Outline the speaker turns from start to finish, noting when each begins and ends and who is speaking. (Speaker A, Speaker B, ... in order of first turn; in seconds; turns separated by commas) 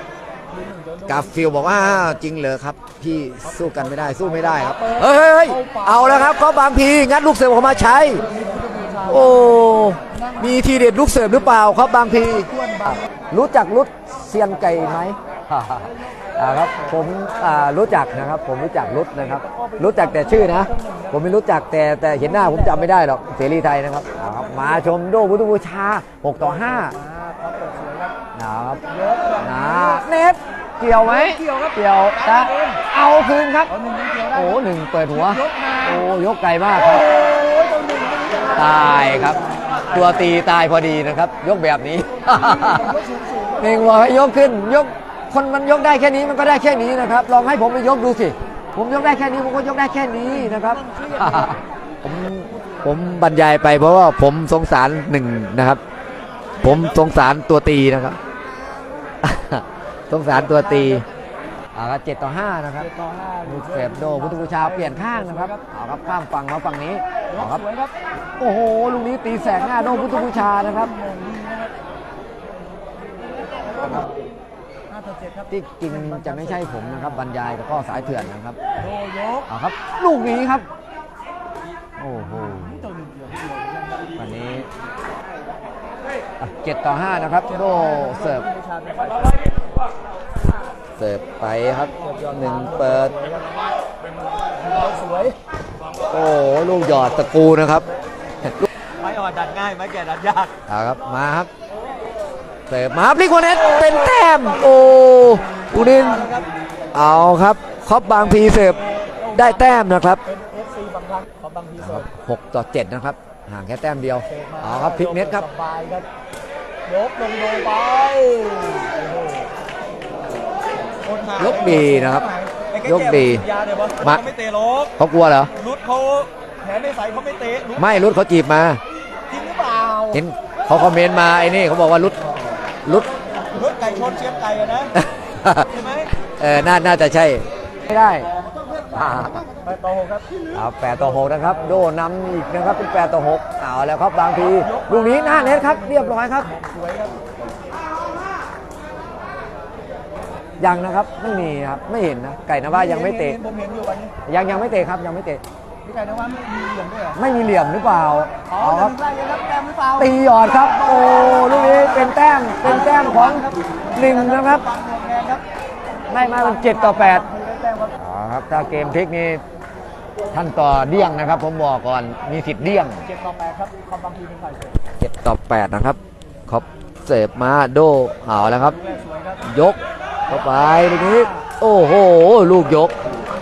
Speaker A: 0.5-2.2, Speaker B: 1.1-8.2, Speaker A: 3.4-6.4, Speaker A: 8.2-11.3, Speaker B: 9.1-26.9, Speaker A: 12.4-13.1, Speaker A: 16.7-17.8, Speaker A: 18.9-21.3, Speaker A: 22.2-22.9, Speaker A: 24.2-24.9, Speaker A: 26.4-28.2, Speaker B: 28.4-28.8, Speaker A: 28.9-30.1, Speaker B: 29.4-33.7, Speaker A: 31.0-32.8, Speaker A: 33.7-36.1, Speaker B: 34.3-37.1, Speaker A: 36.7-39.4, Speaker B: 38.5-43.0, Speaker A: 42.3-43.9, Speaker B: 43.6-55.8, Speaker A: 50.2-51.6, Speaker B: 56.6-58.2, Speaker A: 56.6-57.0, Speaker B: 59.2-61.0, Speaker A: 60.3-61.0, Speaker B: 61.8-62.9, Speaker A: 62.8-65.6, Speaker B: 63.4-67.6, Speaker A: 67.3-67.9, Speaker B: 68.4-70.9, Speaker A: 69.3-71.7, Speaker A: 73.6-74.0, Speaker A: 74.9-79.5, Speaker B: 75.5-78.6, Speaker B: 79.5-80.7, Speaker B: 82.0-82.8, Speaker A: 82.3-84.5, Speaker B: 84.2-84.7, Speaker B: 86.4-88.5, Speaker A: 87.4-89.5, Speaker B: 91.0-93.2, Speaker A: 92.0-93.7, Speaker A: 94.6-95.4, Speaker B: 96.1-97.9, Speaker A: 96.8-97.3, Speaker A: 99.0-100.5, Speaker B: 100.7-101.5, Speaker B: 102.7-106.3, Speaker A: 103.6-104.8, Speaker A: 105.7-106.5, Speaker B: 106.9-108.8, Speaker A: 108.1-112.1, Speaker B: 109.3-110.2, Speaker B: 111.8-115.4, Speaker A: 114.3-116.1, Speaker A: 116.8-119.5, Speaker A: 121.0-124.9, Speaker B: 121.4-122.3, Speaker B: 122.8-123.5, Speaker B: 125.0-125.5, Speaker A: 125.6-127.9, Speaker B: 127.8-128.8, Speaker A: 129.3-130.2, Speaker B: 130.1-132.2, Speaker B: 132.8-133.1, Speaker A: 133.4-134.9, Speaker B: 134.9-135.7, Speaker A: 135.6-136.1, Speaker B: 136.2-138.3, Speaker B: 138.9-139.4, Speaker A: 139.6-140.3, Speaker B: 140.5-146.5, Speaker A: 140.9-141.8, Speaker A: 144.6-147.2, Speaker B: 150.6-153.4, Speaker A: 152.6-154.1, Speaker B: 154.2-155.4, Speaker A: 155.8-157.2, Speaker B: 157.2-158.9, Speaker A: 158.4-165.4, Speaker B: 160.0-164.6, Speaker B: 166.1-167.2, Speaker A: 166.1-168.0, Speaker B: 168.0-169.4, Speaker B: 170.3-173.1, Speaker A: 173.0-174.8, Speaker B: 175.0-178.8, Speaker A: 178.5-179.5, Speaker B: 179.4-182.9, Speaker A: 180.3-181.5